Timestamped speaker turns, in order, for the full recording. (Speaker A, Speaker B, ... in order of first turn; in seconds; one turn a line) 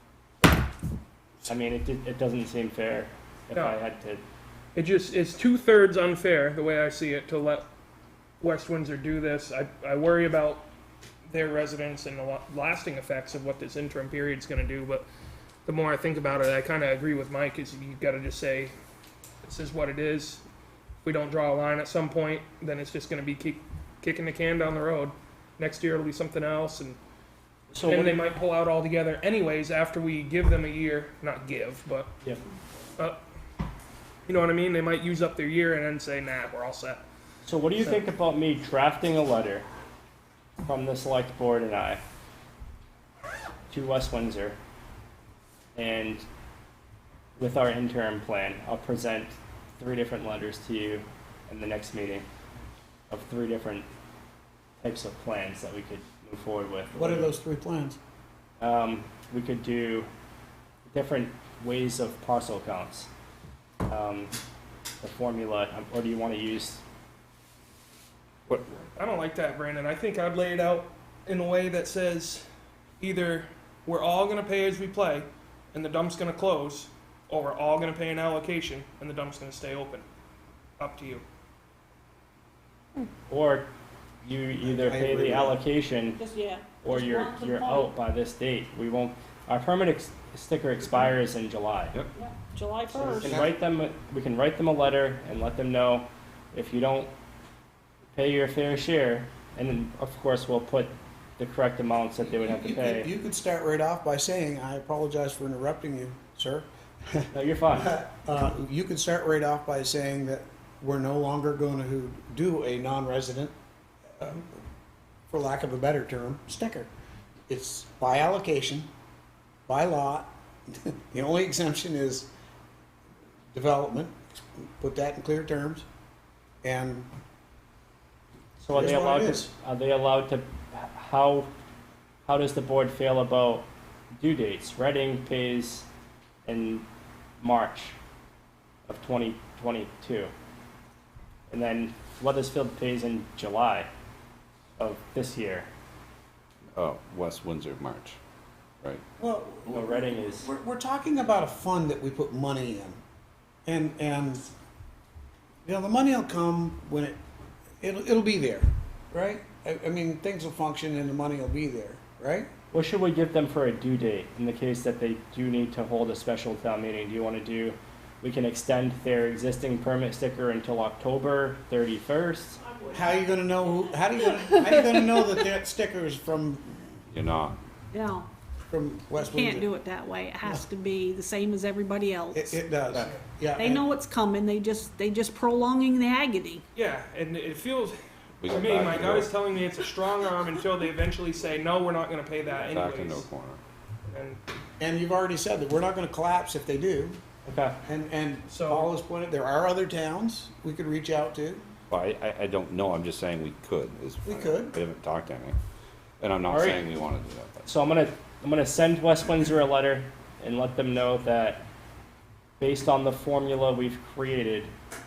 Speaker A: 1.4-4.2
Speaker B: 3.5-3.8
Speaker B: 4.7-7.7
Speaker B: 8.4-10.7
Speaker B: 11.3-15.1
Speaker B: 15.7-18.7
Speaker B: 19.4-20.4
Speaker B: 21.0-27.0
Speaker A: 27.7-28.2
Speaker B: 27.8-32.1
Speaker B: 34.2-37.0
Speaker A: 37.4-39.6
Speaker A: 40.6-42.0
Speaker A: 43.7-44.6
Speaker A: 45.8-46.2
Speaker A: 47.4-52.2
Speaker A: 53.1-53.9
Speaker A: 54.8-57.3
Speaker C: 56.9-58.0
Speaker A: 58.6-60.1
Speaker A: 60.8-63.1
Speaker A: 63.8-64.3
Speaker A: 65.0-66.8
Speaker D: 68.5-68.8
Speaker B: 69.0-72.5
Speaker B: 73.0-80.0
Speaker B: 80.8-81.2
Speaker A: 83.3-83.7
Speaker A: 84.2-86.2
Speaker C: 84.6-85.6
Speaker E: 86.2-87.9
Speaker A: 86.8-92.0
Speaker E: 92.2-93.3
Speaker A: 92.9-97.1
Speaker C: 93.2-93.5
Speaker A: 98.1-103.1
Speaker C: 102.2-113.5
Speaker A: 107.3-107.9
Speaker C: 114.2-114.5
Speaker C: 115.3-116.9
Speaker C: 117.5-118.9
Speaker C: 119.7-122.3
Speaker C: 123.5-124.1
Speaker C: 124.8-125.8
Speaker C: 126.6-127.1
Speaker A: 128.6-131.5
Speaker C: 128.7-129.5
Speaker A: 132.2-133.6
Speaker A: 134.2-135.8
Speaker A: 136.4-136.8
Speaker A: 137.4-137.9
Speaker A: 138.9-140.3
Speaker A: 141.5-143.9
Speaker A: 144.8-145.7
Speaker D: 146.7-148.2
Speaker C: 149.2-153.0
Speaker A: 149.7-150.5
Speaker C: 153.7-154.5
Speaker C: 155.7-157.2
Speaker C: 157.8-162.5
Speaker A: 162.7-172.6
Speaker E: 172.7-173.0
Speaker C: 172.9-176.8
Speaker D: 177.1-177.6
Speaker E: 177.9-178.3
Speaker C: 178.7-179.7
Speaker E: 179.2-182.6
Speaker C: 182.3-183.8
Speaker E: 183.6-186.6
Speaker B: 186.7-193.3
Speaker D: 188.4-189.3
Speaker D: 192.6-193.6
Speaker B: 194.1-194.4
Speaker C: 194.8-197.2
Speaker A: 197.4-197.8
Speaker C: 197.8-201.6
Speaker B: 198.5-198.9
Speaker D: 201.9-205.6
Speaker C: 204.2-204.7
Speaker D: 206.2-207.7
Speaker A: 206.5-206.8
Speaker A: 207.7-211.6
Speaker A: 212.6-214.7